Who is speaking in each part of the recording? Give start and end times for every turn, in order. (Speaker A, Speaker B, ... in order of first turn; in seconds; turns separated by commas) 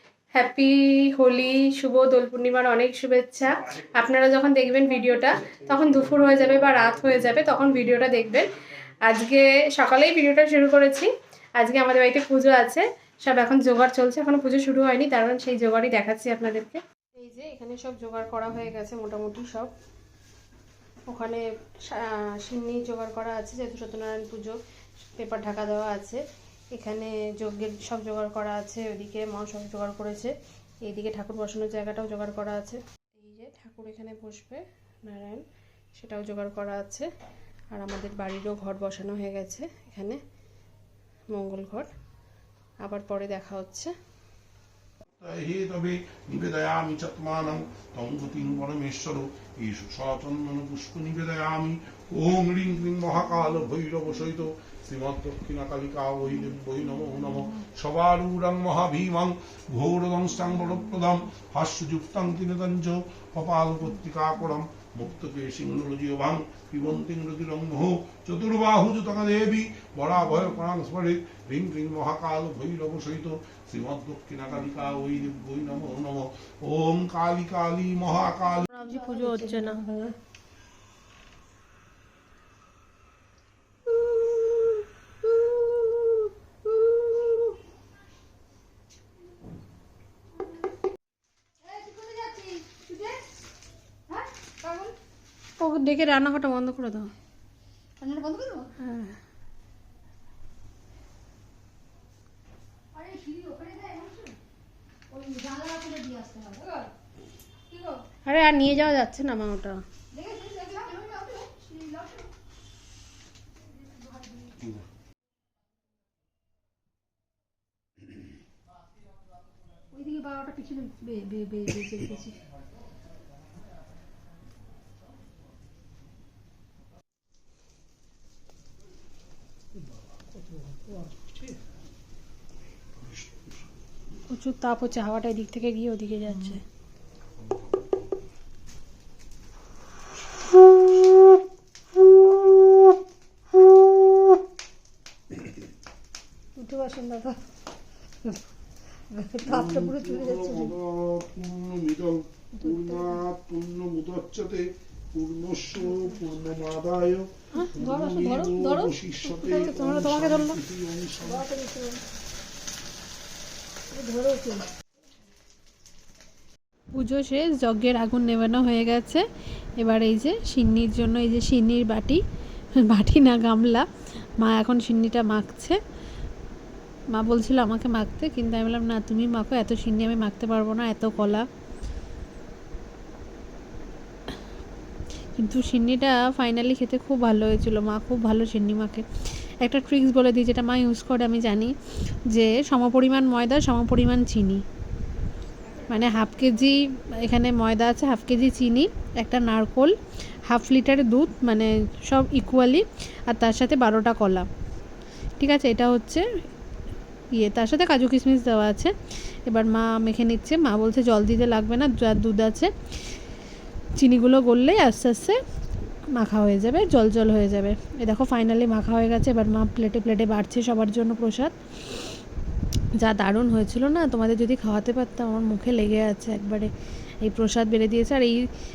Speaker A: 0.3-19.7, Speaker A: 21.1-24.6, Speaker A: 25.2-30.3, Speaker A: 30.9-35.4, Speaker A: 36.0-37.1, Speaker A: 37.7-40.2, Speaker A: 41.3-41.9, Speaker A: 42.8-43.9, Speaker B: 45.2-78.7, Speaker A: 78.7-79.8, Speaker C: 78.7-80.2, Speaker C: 84.0-84.8, Speaker C: 85.3-86.1, Speaker C: 86.7-87.4, Speaker C: 91.6-93.2, Speaker C: 94.1-95.0, Speaker A: 95.6-97.1, Speaker C: 98.0-98.7, Speaker A: 98.8-99.2, Speaker C: 102.9-104.4, Speaker C: 105.1-106.9, Speaker C: 107.7-108.0, Speaker A: 108.2-109.8, Speaker C: 110.1-112.3, Speaker C: 113.8-114.7, Speaker C: 119.9-122.4, Speaker B: 133.0-133.5, Speaker A: 134.3-136.6, Speaker C: 146.6-147.4, Speaker C: 149.1-150.7, Speaker B: 149.4-161.5, Speaker C: 152.6-153.2, Speaker C: 157.6-158.9, Speaker A: 159.2-160.6, Speaker C: 161.2-162.0, Speaker C: 163.9-164.7, Speaker A: 166.9-169.2, Speaker A: 169.8-172.2, Speaker A: 172.8-173.8, Speaker A: 174.4-175.8, Speaker A: 177.1-181.5, Speaker A: 185.3-189.1, Speaker A: 189.6-191.7, Speaker A: 192.3-194.6, Speaker A: 195.9-199.9, Speaker A: 200.5-204.5, Speaker A: 205.4-206.2, Speaker A: 207.3-208.9, Speaker A: 209.4-212.7, Speaker A: 214.0-215.4, Speaker A: 216.2-221.5, Speaker A: 223.0-226.7, Speaker A: 227.2-228.4